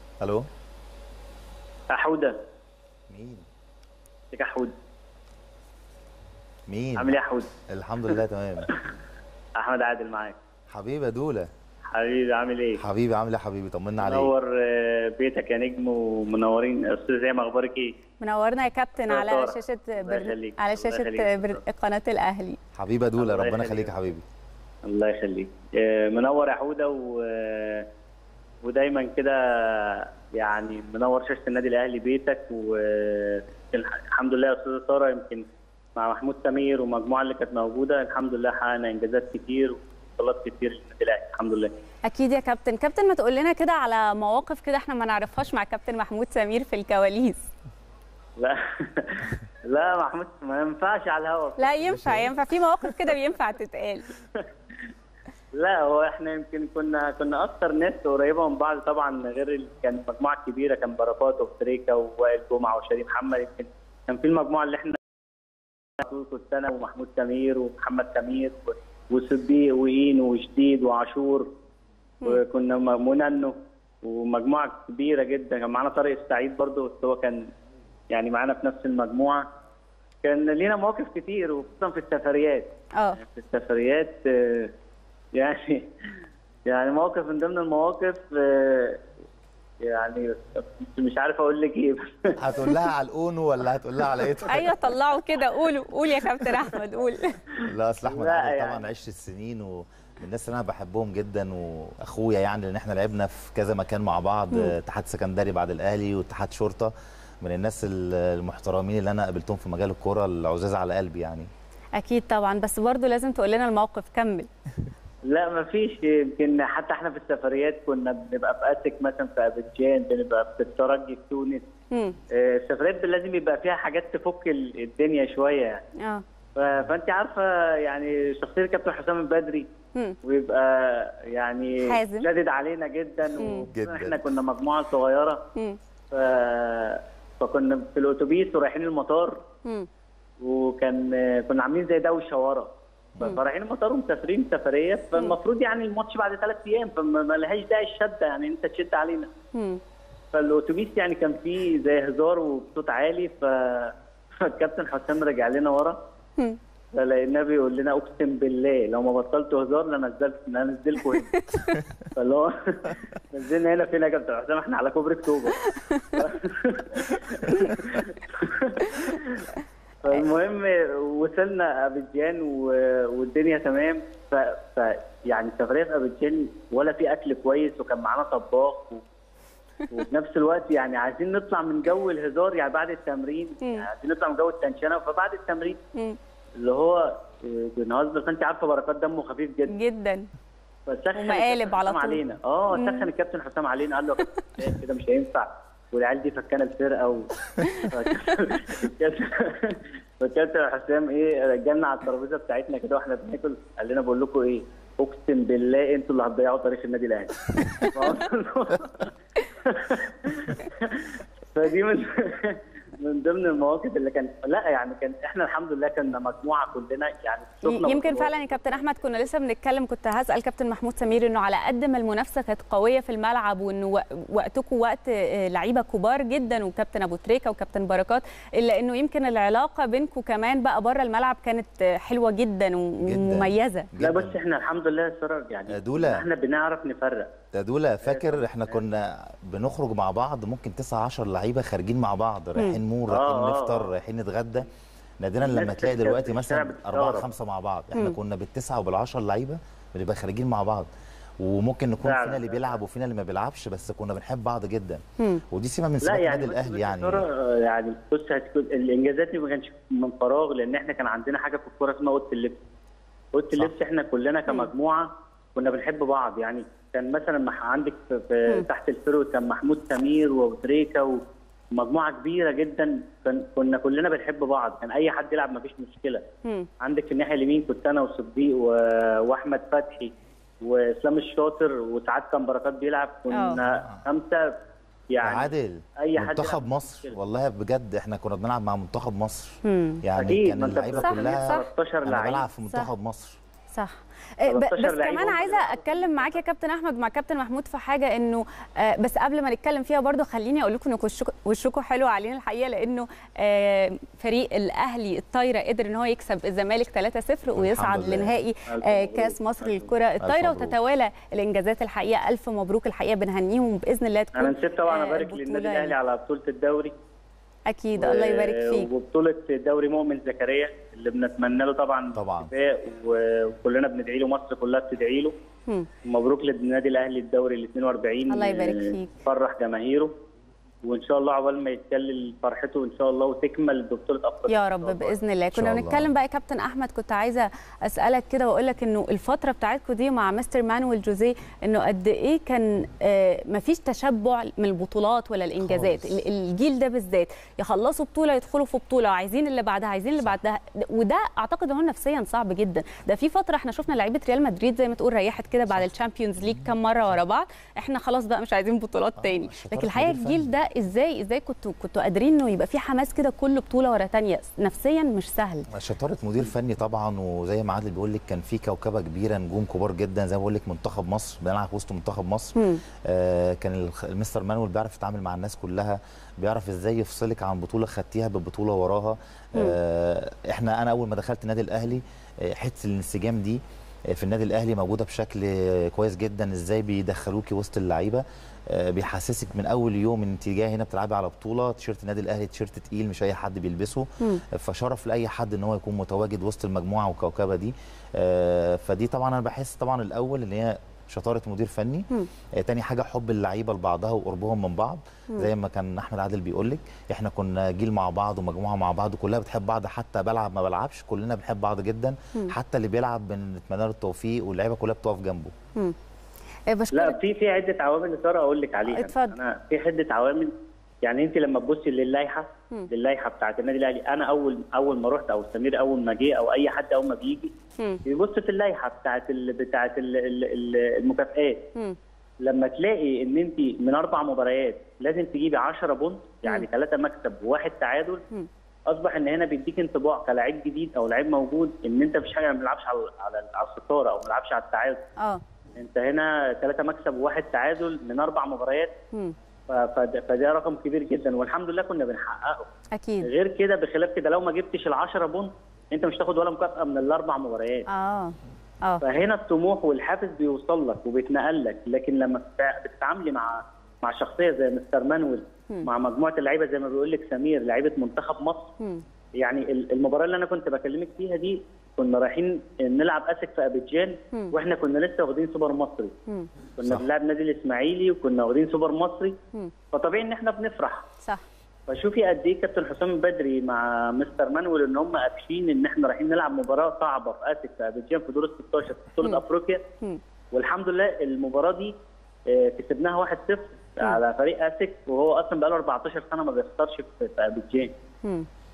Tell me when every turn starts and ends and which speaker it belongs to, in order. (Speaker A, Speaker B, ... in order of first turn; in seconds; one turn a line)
Speaker A: 1.9-2.4
Speaker B: 3.1-3.4
Speaker A: 4.3-4.7
Speaker B: 6.7-7.1
Speaker A: 7.0-7.5
Speaker B: 7.7-8.7
Speaker A: 9.6-10.3
Speaker B: 10.7-11.5
Speaker A: 11.9-12.8
Speaker B: 12.8-14.3
Speaker A: 14.0-17.9
Speaker C: 18.2-22.6
Speaker A: 19.1-21.6
Speaker B: 22.8-24.2
Speaker A: 23.2-23.9
Speaker A: 24.9-27.9
Speaker A: 28.6-35.5
Speaker A: 36.0-41.7
Speaker C: 42.1-47.5
Speaker A: 48.4-52.0
Speaker C: 51.6-54.1
Speaker B: 51.9-52.3
Speaker A: 55.5-65.0
Speaker A: 66.0-71.5
Speaker A: 72.2-77.5
Speaker A: 78.1-79.5
Speaker A: 80.2-84.7
Speaker A: 85.3-85.9
Speaker A: 86.7-89.0
Speaker A: 89.8-92.4
Speaker B: 92.4-94.8
Speaker C: 94.5-97.4
Speaker B: 97.7-111.5
Speaker A: 98.1-98.8
Speaker C: 112.0-114.5
Speaker A: 115.3-121.6
Speaker C: 121.9-122.2
Speaker A: 122.3-125.8
Speaker C: 126.0-126.2
Speaker A: 126.6-129.7
Speaker A: 130.2-135.4
Speaker C: 131.8-132.3
Speaker C: 133.4-133.7
Speaker B: 133.7-134.3
Speaker A: 136.1-139.4
Speaker A: 140.4-142.7
Speaker A: 143.2-149.3
Speaker C: 149.5-149.8
Speaker A: 150.3-156.0
Speaker A: 156.9-161.5
Speaker C: 161.3-161.8
Speaker A: 162.2-169.5
Speaker C: 165.7-166.1
Speaker A: 170.0-179.0
Speaker A: 179.9-185.8
Speaker A: 186.6-189.7
Speaker C: 189.7-190.3
Speaker A: 190.9-209.1
Speaker C: 191.2-192.2
Speaker C: 192.7-193.1
Speaker C: 197.6-197.9
Speaker A: 209.7-219.0
Speaker C: 217.7-233.9
Speaker B: 233.0-234.4
Speaker A: 234.0-237.3
Speaker B: 235.7-236.2
Speaker B: 237.5-244.7
Speaker A: 238.0-238.8
Speaker A: 243.1-243.9
Speaker B: 245.2-250.9
Speaker A: 245.4-247.3
Speaker B: 251.4-257.2
Speaker A: 252.0-252.8
Speaker A: 256.0-262.6
Speaker A: 263.3-271.2
Speaker A: 271.8-276.2
Speaker A: 276.8-280.1
Speaker A: 280.6-284.5
Speaker C: 283.3-283.6
Speaker B: 283.6-284.0
Speaker A: 285.1-287.1
Speaker B: 285.2-293.4
Speaker C: 289.6-290.0
Speaker A: 290.2-292.5
Speaker C: 291.0-291.6
Speaker C: 293.7-315.9
Speaker A: 294.5-296.4
Speaker B: 307.6-308.4
Speaker A: 308.7-309.9
Speaker B: 310.2-310.8
Speaker A: 314.3-316.9
Speaker C: 317.7-318.9
Speaker A: 318.0-325.3
Speaker B: 322.1-322.5
Speaker A: 326.1-330.1
Speaker C: 328.3-329.1
Speaker A: 330.8-335.2
Speaker C: 334.5-365.7
Speaker B: 335.5-336.1
Speaker B: 345.6-346.2
Speaker B: 359.2-360.5
Speaker B: 365.8-383.6
Speaker C: 372.6-372.8
Speaker B: 384.1-415.5
Speaker C: 416.7-417.2
Speaker A: 416.9-427.5
Speaker C: 418.9-419.4
Speaker A: 428.1-431.6
Speaker A: 432.4-438.2
Speaker A: 438.9-445.0
Speaker A: 445.8-448.9
Speaker A: 449.7-452.7
Speaker C: 452.9-453.3
Speaker A: 453.2-457.9
Speaker C: 457.9-459.0
Speaker A: 459.0-468.7
Speaker A: 469.4-476.1
Speaker A: 476.8-479.4
Speaker A: 479.9-481.1
Speaker A: 481.9-489.8
Speaker A: 490.5-491.9
Speaker A: 492.5-497.9